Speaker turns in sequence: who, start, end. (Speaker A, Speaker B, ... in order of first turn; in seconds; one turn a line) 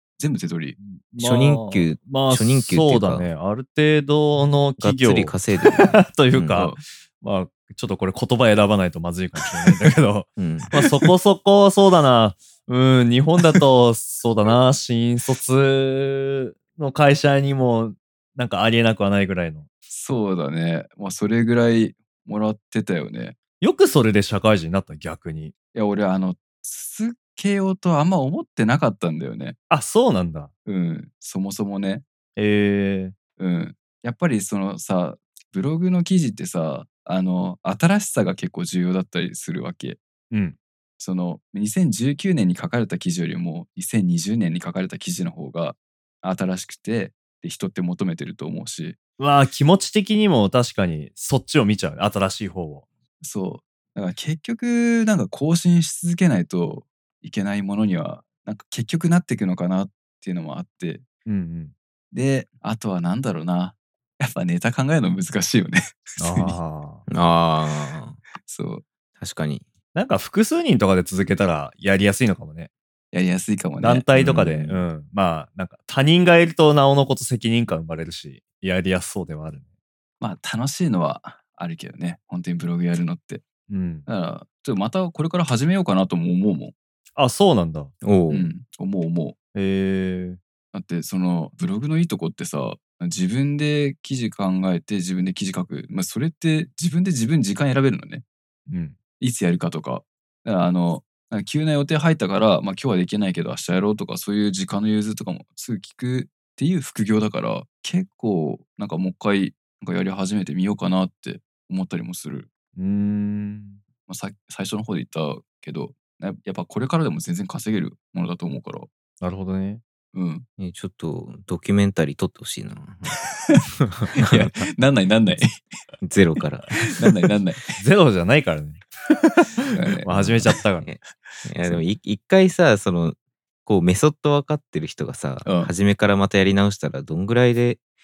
Speaker A: 0.2-0.8
Speaker B: 0.8-19.7
Speaker C: 1.2-3.3
Speaker C: 4.8-6.7
Speaker C: 10.4-10.7
Speaker A: 19.9-23.4
Speaker B: 23.6-25.5
Speaker A: 25.7-29.6
Speaker B: 29.7-30.5
Speaker A: 30.6-32.0
Speaker B: 32.4-33.1
Speaker A: 33.4-40.0
Speaker B: 40.3-40.5
Speaker A: 41.0-49.0
Speaker B: 49.2-52.8
Speaker A: 53.2-61.0
Speaker B: 61.2-61.7
Speaker A: 62.1-66.5
Speaker B: 66.2-67.0
Speaker C: 67.1-68.2
Speaker A: 68.4-68.8
Speaker C: 69.2-69.7
Speaker B: 69.9-72.7
Speaker A: 73.1-74.0
Speaker B: 73.8-79.6
Speaker C: 74.1-74.8
Speaker A: 80.2-83.4
Speaker B: 83.7-84.0
Speaker A: 84.0-86.7
Speaker B: 87.2-87.9
Speaker C: 88.0-88.5
Speaker A: 88.3-89.3
Speaker B: 89.5-90.4
Speaker A: 90.7-98.2
Speaker B: 98.7-98.9
Speaker A: 99.2-112.5
Speaker B: 112.8-113.8
Speaker A: 114.1-118.9
Speaker B: 119.2-119.8
Speaker A: 120.1-120.4
Speaker C: 120.6-123.2
Speaker A: 123.1-123.6
Speaker A: 124.1-125.5
Speaker C: 126.0-126.7
Speaker A: 126.9-127.7
Speaker B: 127.8-128.8
Speaker B: 129.6-130.9
Speaker A: 129.7-130.5
Speaker C: 130.3-137.8
Speaker A: 135.4-135.7